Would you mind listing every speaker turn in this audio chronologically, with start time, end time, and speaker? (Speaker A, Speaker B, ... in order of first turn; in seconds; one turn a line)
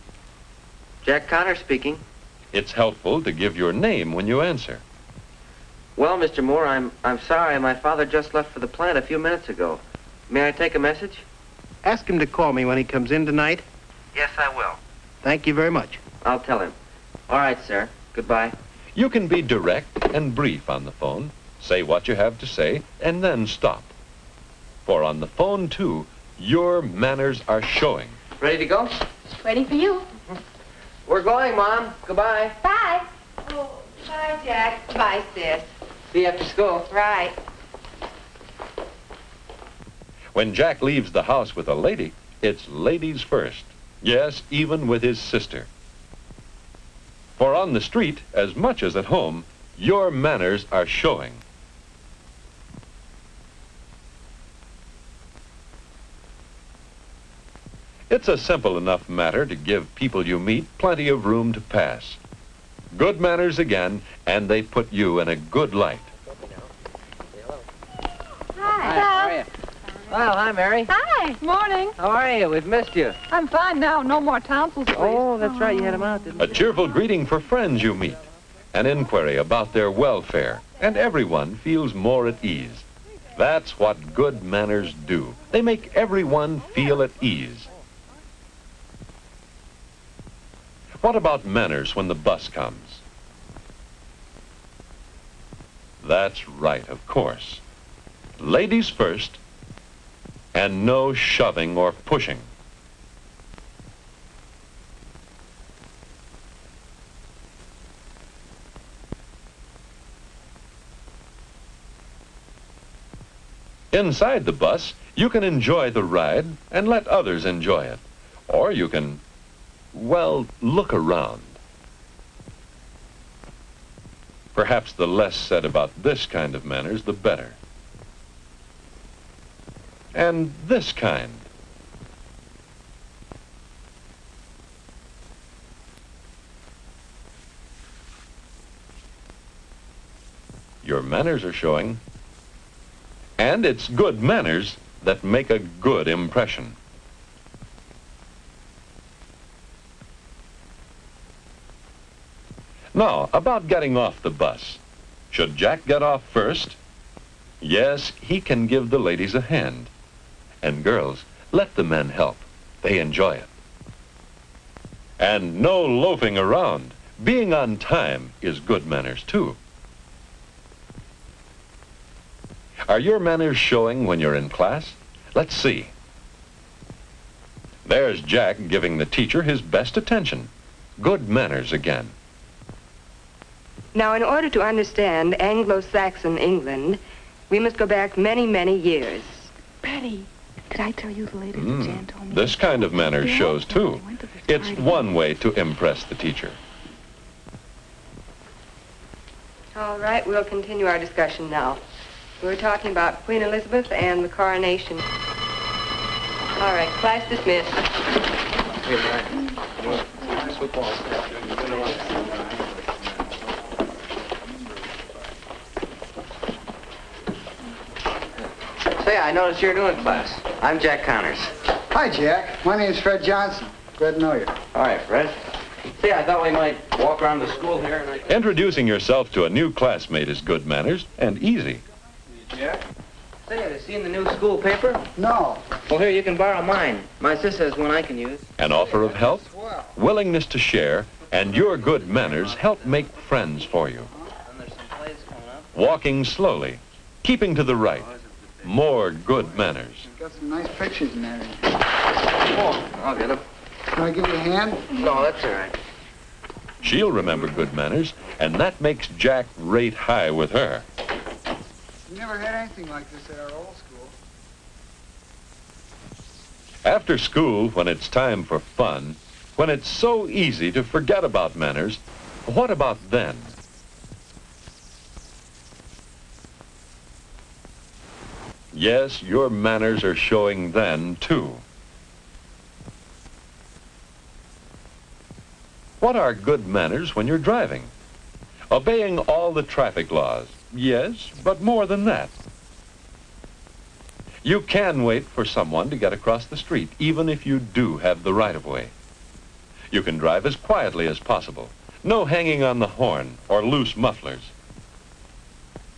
Speaker A: 1.0-2.0
Speaker B: 2.5-4.8
Speaker A: 6.0-11.2
Speaker C: 11.8-13.6
Speaker A: 14.1-14.8
Speaker C: 15.2-16.0
Speaker A: 16.2-16.7
Speaker A: 17.3-18.5
Speaker B: 18.9-23.9
Speaker B: 24.8-28.2
Speaker A: 28.4-28.9
Speaker A: 29.5-30.0
Speaker A: 31.1-33.0
Speaker D: 33.5-35.6
Speaker A: 36.1-37.3
Speaker B: 40.3-45.7
Speaker B: 47.4-51.4
Speaker B: 58.1-62.2
Speaker B: 62.9-66.1
Speaker A: 68.7-69.5
Speaker E: 68.8-69.3
Speaker A: 70.1-71.0
Speaker E: 71.4-71.9
Speaker A: 72.0-73.2
Speaker E: 73.3-75.2
Speaker A: 74.9-76.4
Speaker B: 76.4-78.2
Speaker B: 78.7-82.8
Speaker B: 83.3-87.7
Speaker B: 91.0-93.0
Speaker B: 96.0-97.6
Speaker B: 98.4-99.4
Speaker B: 100.5-102.5
Speaker B: 113.9-119.2
Speaker B: 119.9-121.6
Speaker B: 124.5-127.6
Speaker B: 130.1-131.5
Speaker B: 140.8-142.0
Speaker B: 143.4-146.8
Speaker B: 152.9-156.8
Speaker B: 157.6-159.9
Speaker B: 160.6-163.5
Speaker B: 165.2-169.6
Speaker B: 172.9-175.9
Speaker B: 177.8-182.1
Speaker D: 183.9-189.5
Speaker F: 189.8-195.1
Speaker B: 191.5-196.6
Speaker D: 199.7-201.8
Speaker D: 202.4-205.0
Speaker D: 206.6-207.8
Speaker A: 208.8-209.4
Speaker A: 211.4-212.4
Speaker A: 219.0-221.5
Speaker G: 221.9-224.6
Speaker A: 224.7-225.4
Speaker A: 225.9-228.3
Speaker B: 228.3-231.8
Speaker A: 233.4-235.0
Speaker G: 235.2-235.7
Speaker A: 235.8-238.5
Speaker B: 238.6-244.1
Speaker G: 238.7-240.0
Speaker A: 241.4-243.1
Speaker A: 244.4-245.7
Speaker B: 245.7-248.1
Speaker A: 247.9-248.7
Speaker B: 248.6-250.1
Speaker G: 250.1-251.7
Speaker A: 252.5-253.4
Speaker G: 253.9-255.0
Speaker A: 254.9-255.8
Speaker B: 256.8-260.8
Speaker G: 262.1-264.1
Speaker B: 266.8-273.5
Speaker B: 278.7-281.6
Speaker B: 286.0-287.9
Speaker B: 288.7-292.3
Speaker B: 294.4-298.9
Speaker B: 299.9-304.5